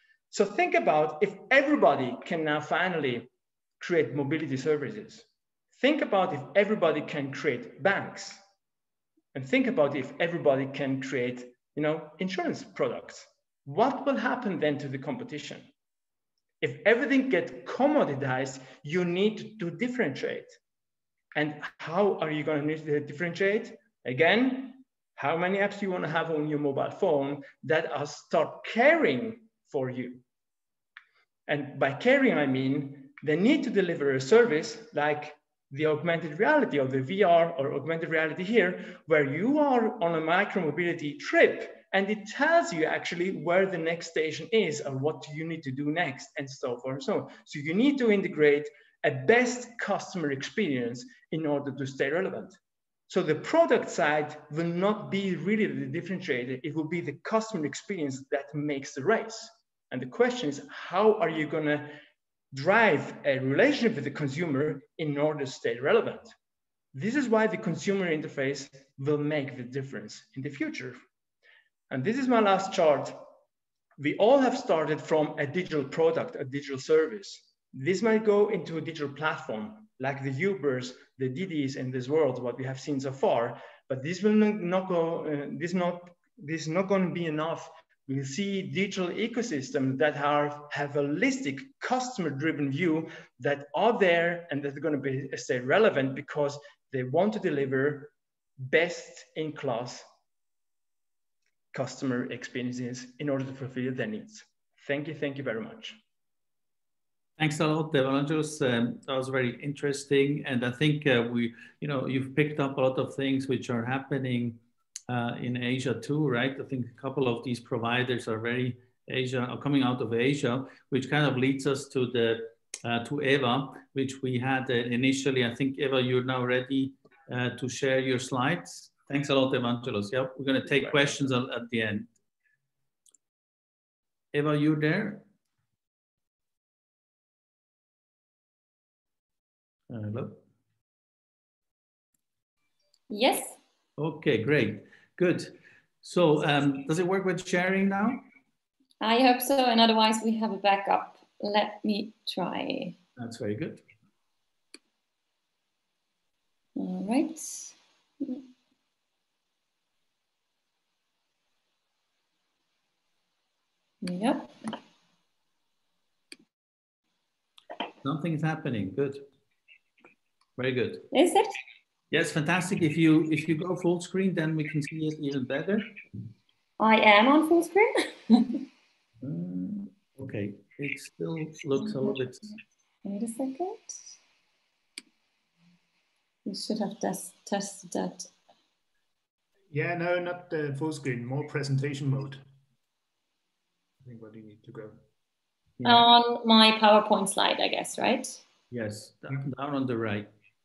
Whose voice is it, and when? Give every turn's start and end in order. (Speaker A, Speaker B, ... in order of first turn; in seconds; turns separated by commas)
Speaker A: 0.3-8.4, Speaker A: 9.3-15.7, Speaker A: 16.6-20.6, Speaker A: 21.3-30.2, Speaker A: 31.5-52.6, Speaker A: 53.1-62.0, Speaker A: 62.5-66.3, Speaker A: 66.9-71.0, Speaker A: 71.9-73.3, Speaker A: 74.0-100.0, Speaker A: 101.7-106.0, Speaker B: 107.4-132.1, Speaker B: 134.3-135.2, Speaker B: 139.9-140.4, Speaker C: 143.1-143.5, Speaker B: 144.0-145.5, Speaker B: 146.0-148.2, Speaker C: 149.0-152.9, Speaker B: 153.2-153.8, Speaker C: 156.8-158.4, Speaker C: 164.0-164.5, Speaker B: 168.0-169.2, Speaker B: 170.6-171.1, Speaker C: 171.1-171.5, Speaker B: 172.1-175.9, Speaker C: 176.8-178.6, Speaker B: 179.2-182.5, Speaker C: 181.9-184.0, Speaker C: 186.4-188.3, Speaker D: 189.7-192.4, Speaker D: 194.0-195.0, Speaker B: 195.8-196.1, Speaker C: 195.8-198.4, Speaker B: 198.7-200.3